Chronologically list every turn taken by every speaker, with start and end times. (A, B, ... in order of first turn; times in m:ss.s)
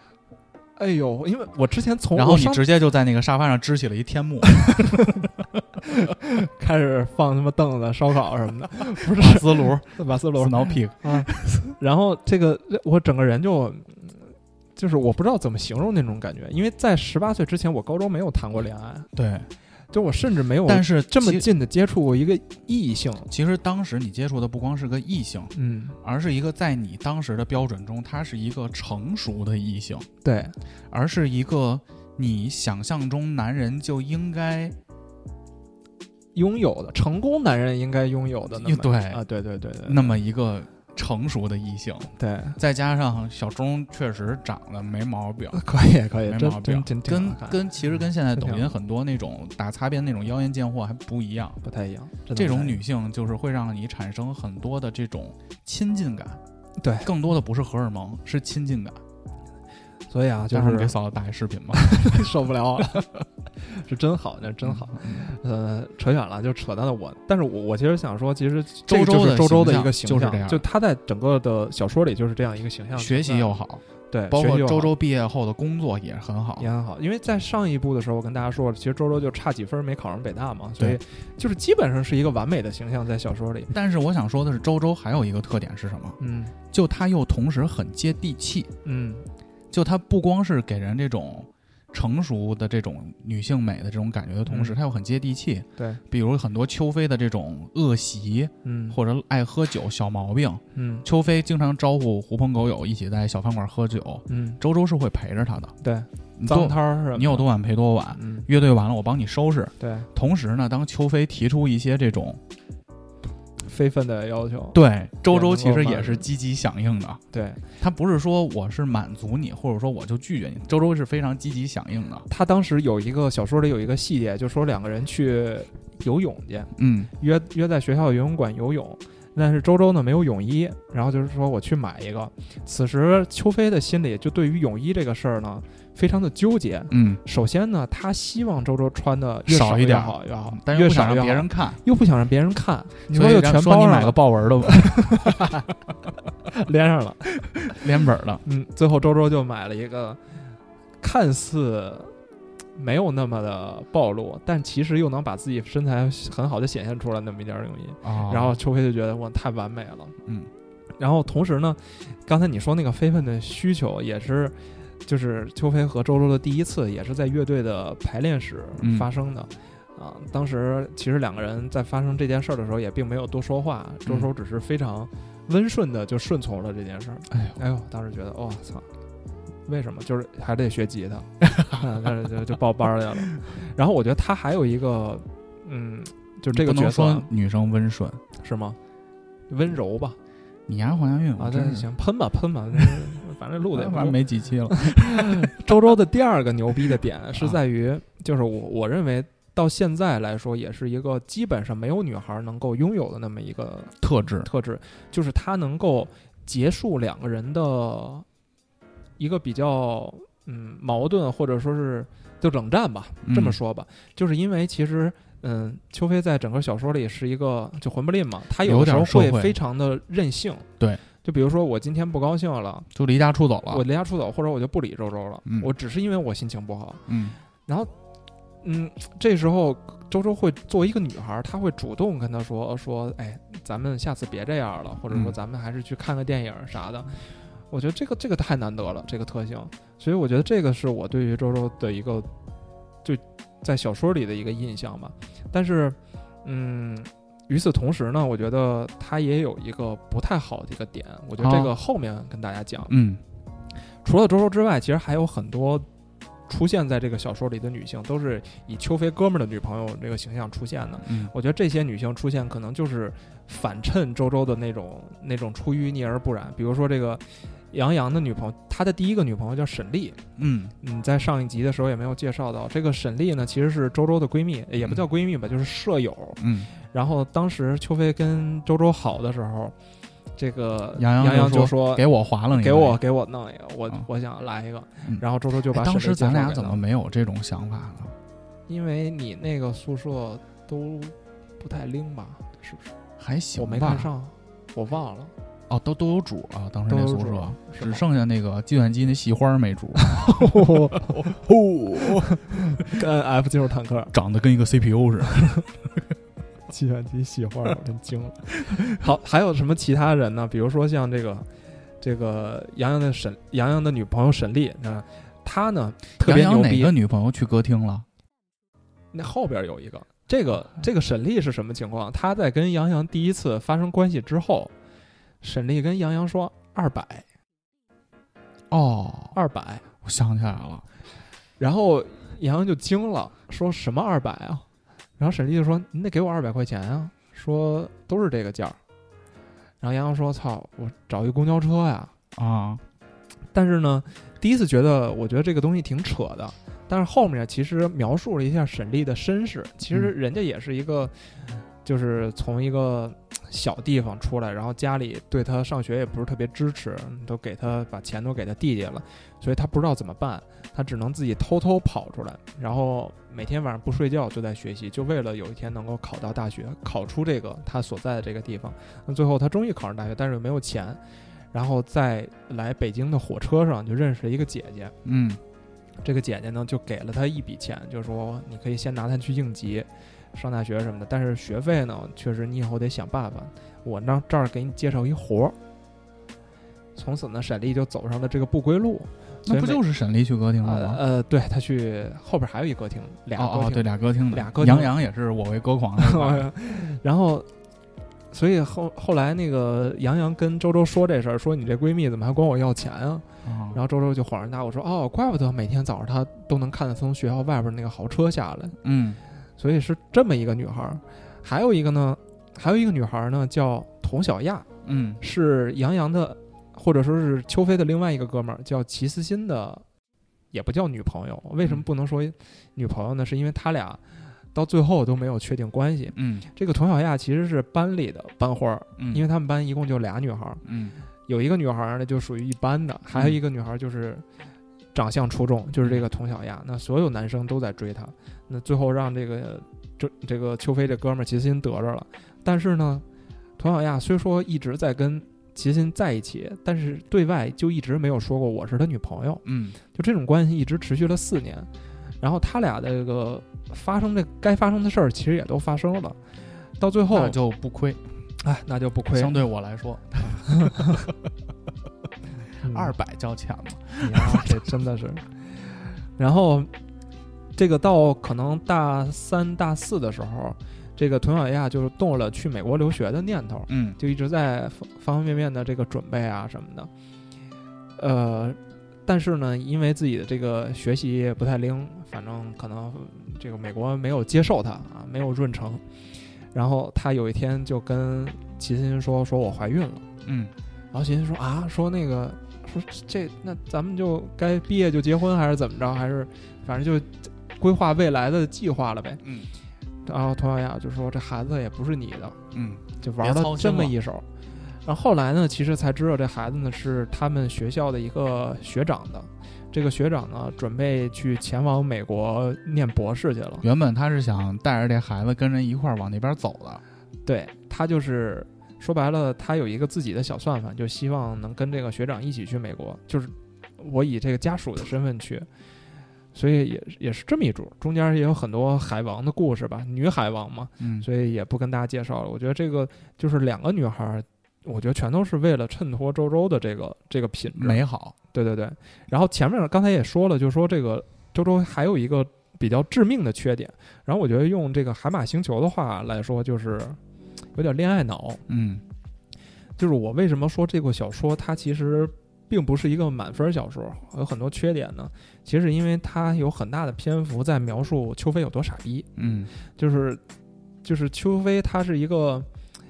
0:00.8-0:02.6 A
0:02.2-0:05.3 B
0:05.9-0:19.1 A
0:09.1-0:11.6 B
0:19.2-0:19.5 B
0:19.9-0:23.3 A
0:20.7-0:21.5 B
0:23.3-0:30.1 B
0:25.5-0:26.0 A
0:30.2-0:30.6 A
0:30.9-0:34.8 B
0:36.4-0:40.2 A
0:38.5-0:39.2 B
0:39.8-0:45.6 B
0:42.2-0:42.6 A
0:45.5-0:47.6 A
0:46.3-0:51.6 B
0:48.4-0:48.7 A
0:51.6-0:52.8 A
0:52.3-0:56.4 B
0:56.8-0:57.1 A
0:57.0-0:59.0 B
1:00.1-1:00.9 A
1:00.5-1:02.3 B
1:01.7-1:13.5 A
1:04.6-1:05.3 B
1:08.9-1:10.6 B
1:13.0-1:16.7 B
1:14.1-1:14.9 A
1:16.6-1:23.7 A
1:23.7-1:26.2 B
1:26.2-1:26.5 A
1:26.7-1:28.7 B
1:28.8-1:29.2 A
1:29.7-1:45.7 B
1:34.5-1:34.8 A
1:38.6-1:39.0 A
1:40.8-1:41.0 A
1:44.3-1:44.6 A
1:45.8-1:47.5 A
1:46.4-1:52.4 B
1:48.2-1:48.5 A
1:49.8-1:50.1 A
1:53.6-1:56.3 A
1:54.7-1:57.2 B
1:57.3-1:57.6 A
1:57.8-2:02.3 B
2:02.3-2:25.7 A
2:06.8-2:07.1 B
2:16.9-2:17.2 B
2:19.5-2:21.8 B
2:23.1-2:25.5 B
2:26.5-2:27.8 A
2:27.7-2:28.4 B
2:28.4-2:30.2 A
2:31.0-2:32.1 A
2:32.8-2:40.2 A
2:38.0-2:38.6 B
2:41.0-2:58.9 A
2:48.8-2:49.1 B
2:57.3-2:57.6 B
2:59.7-3:07.3 A
3:06.5-3:08.2 B
3:08.4-3:08.8 A
3:09.5-3:10.2 A
3:10.7-3:11.9 B
3:11.4-3:28.3 A
3:13.7-3:15.5 B
3:24.0-3:24.5 B
3:29.2-3:40.7 A
3:33.2-3:33.6 B
3:38.6-3:39.6 B
3:41.2-3:42.9 A
3:42.9-3:43.8 B
3:43.7-3:47.0 A
3:45.5-3:45.7 B
3:47.1-3:47.4 B
3:47.7-3:47.9 A
3:48.6-4:02.3 A
4:03.0-4:12.9 A
4:11.4-4:11.7 B
4:12.9-4:13.2 B
4:14.0-4:15.9 A
4:16.5-4:30.2 A
4:21.0-4:21.3 B
4:30.4-4:30.8 B
4:30.8-4:39.8 A
4:36.4-4:36.7 B
4:40.4-4:46.8 A
4:41.0-4:43.0 B
4:45.0-4:48.2 B
4:48.7-4:52.9 A
4:53.2-4:54.1 B
4:53.6-4:55.3 A
4:55.7-5:02.2 B
4:56.9-4:58.0 A
5:00.0-5:04.1 A
5:04.1-5:05.6 B
5:06.7-5:11.5 A
5:12.0-5:16.9 A
5:16.2-5:18.0 B
5:19.1-5:24.7 A
5:25.4-5:27.2 A
5:28.7-5:29.4 B
5:29.3-5:29.8 A
5:30.0-5:30.8 B
5:31.6-5:34.6 A
5:35.2-5:38.8 A
5:39.8-5:42.1 A
5:42.4-5:42.8 B
5:43.5-5:51.1 A
5:51.8-6:11.0 A
6:11.5-6:14.9 A
6:15.0-6:15.4 B
6:16.0-6:25.6 A
6:27.0-6:29.8 A
6:29.5-6:31.0 B
6:30.6-6:34.9 A
6:33.4-6:36.5 B
6:36.0-6:37.5 A
6:38.3-6:48.8 A
6:43.4-6:43.8 B
6:48.8-6:49.2 B
6:49.6-6:54.7 A
6:54.8-6:55.2 B
6:55.2-6:59.8 A
7:00.5-7:04.0 A
7:04.5-7:10.6 A
7:06.1-7:06.5 B
7:09.0-7:09.2 B
7:10.6-7:11.0 B
7:11.3-7:14.2 A
7:14.9-7:23.0 A
7:23.6-7:31.7 A
7:29.4-7:29.8 B
7:32.2-7:36.2 A
7:36.8-7:37.4 A
7:37.1-7:38.0 B
7:38.4-7:39.4 A
7:39.1-7:41.1 B
7:40.6-7:40.9 A
7:42.6-7:42.9 A
7:42.6-7:44.6 B
7:44.0-7:46.7 A
7:47.6-7:56.9 A
7:53.7-7:54.0 B
7:58.0-8:05.8 A
8:06.5-8:10.1 A
8:10.2-8:10.5 B
8:10.9-8:19.2 A
8:19.2-8:19.5 B
8:20.1-8:22.4 A
8:22.5-8:24.0 B
8:23.0-8:24.2 A
8:24.8-8:33.6 A
8:33.6-8:36.8 B
8:37.2-8:45.5 A
8:46.3-8:57.8 A
8:50.8-8:51.1 B
8:57.6-8:58.2 B
8:58.3-9:07.0 A
9:07.6-9:08.4 A
9:08.5-9:08.8 B
9:09.8-9:19.1 A
9:19.2-9:19.5 B
9:19.6-9:20.2 A
9:20.8-9:22.5 A